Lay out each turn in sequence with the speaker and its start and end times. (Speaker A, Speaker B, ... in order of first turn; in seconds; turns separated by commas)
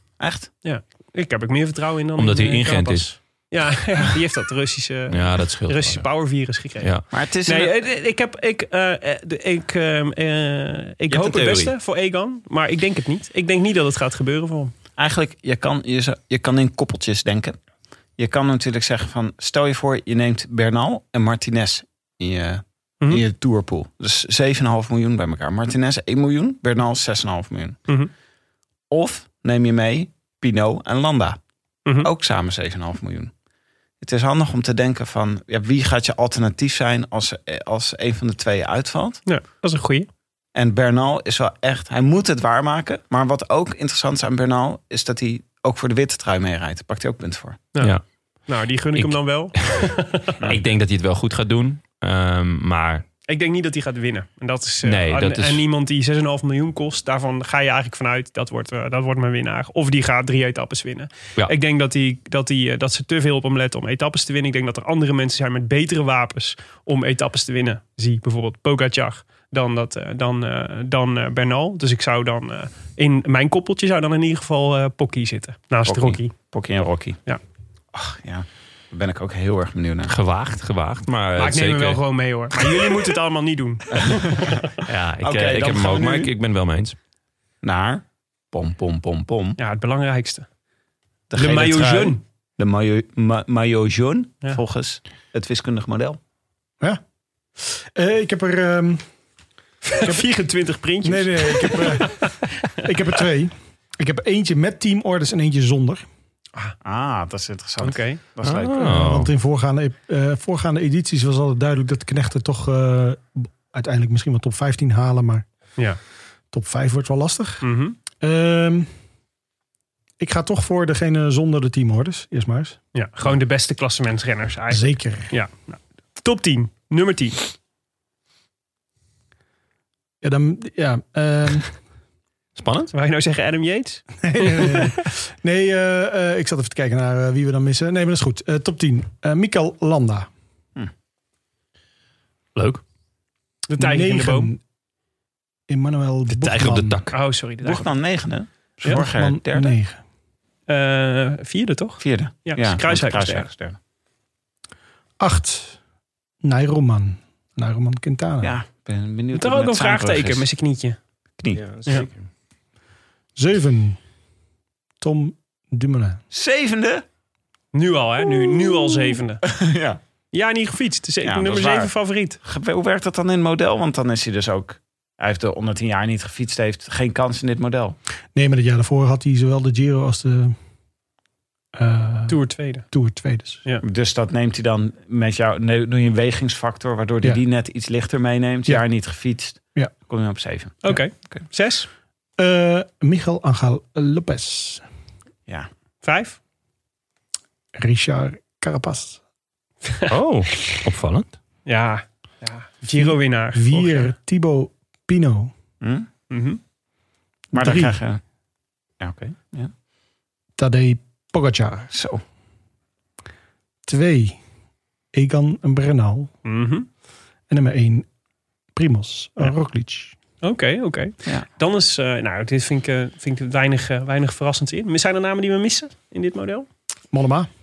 Speaker A: 0.2-0.5, Speaker B: 0.6-14.7, Speaker C: 2.2-3.1, Speaker C: 5.1-6.1, Speaker C: 6.6-7.0, Speaker A: 7.1-7.7, Speaker C: 11.1-11.7, Speaker A: 15.0-17.6, Speaker A: 18.2-27.8, Speaker A: 28.9-31.4, Speaker A: 32.0-33.3, Speaker A: 34.0-39.2, Speaker B: 39.2-40.1, Speaker A: 40.5-47.6, Speaker B: 47.7-50.3, Speaker C: 48.9-49.8, Speaker C: 50.4-53.0, Speaker B: 53.3-76.3, Speaker C: 54.8-55.6, Speaker A: 75.9-77.2, Speaker A: 77.9-80.1, Speaker C: 80.1-82.0, Speaker B: 81.4-84.6, Speaker A: 83.9-84.5, Speaker C: 84.8-87.0, Speaker A: 85.2-86.3, Speaker A: 87.6-89.6, Speaker B: 89.6-90.5, Speaker A: 91.3-96.2, Speaker B: 91.3-92.2, Speaker D: 97.6-99.1, Speaker B: 99.8-102.4, Speaker D: 99.9-100.2, Speaker D: 101.0-106.0, Speaker A: 106.8-108.9, Speaker B: 107.8-108.2, Speaker C: 108.4-109.3, Speaker D: 108.7-115.5, Speaker D: 116.5-117.7, Speaker B: 117.6-118.0, Speaker D: 118.2-118.9, Speaker D: 120.2-122.8, Speaker B: 122.9-127.5, Speaker D: 124.7-125.3, Speaker D: 130.2-131.7, Speaker C: 132.6-132.9, Speaker B: 132.9-134.9, Speaker D: 134.2-140.3, Speaker C: 142.5-142.8, Speaker B: 143.7-144.5, Speaker D: 143.8-144.6, Speaker D: 145.7-147.0, Speaker C: 146.3-147.2, Speaker B: 147.1-147.9, Speaker A: 147.6-149.8, Speaker D: 148.9-150.0, Speaker B: 150.7-153.5, Speaker A: 152.0-153.8, Speaker D: 155.2-155.8, Speaker D: 156.4-158.6, Speaker A: 158.4-160.4, Speaker B: 159.3-161.0, Speaker A: 161.4-161.7, Speaker C: 161.6-162.1, Speaker D: 163.3-164.0, Speaker D: 165.0-166.2, Speaker A: 166.3-167.0, Speaker B: 167.7-169.4, Speaker A: 169.4-170.0, Speaker B: 170.3-172.4, Speaker A: 171.2-178.0, Speaker D: 178.3-180.6, Speaker D: 181.7-183.6, Speaker B: 182.3-182.9, Speaker A: 183.8-191.4, Speaker B: 190.8-191.9, Speaker D: 192.4-194.8, Speaker B: 196.0-196.4, Speaker D: 197.8-199.2, Speaker C: 200.1-201.3, Speaker B: 201.7-204.1, Speaker D: 202.9-205.5, Speaker A: 205.8-206.1, Speaker B: 206.3-206.6, Speaker D: 207.5-207.9, Speaker A: 207.5-208.2, Speaker A: 209.0-209.7, Speaker D: 210.6-211.9, Speaker A: 211.9-212.2, Speaker D: 213.8-214.4, Speaker D: 215.1-216.3, Speaker B: 216.4-216.9, Speaker D: 217.5-218.1, Speaker D: 218.7-220.1, Speaker B: 220.4-226.7, Speaker D: 227.1-227.5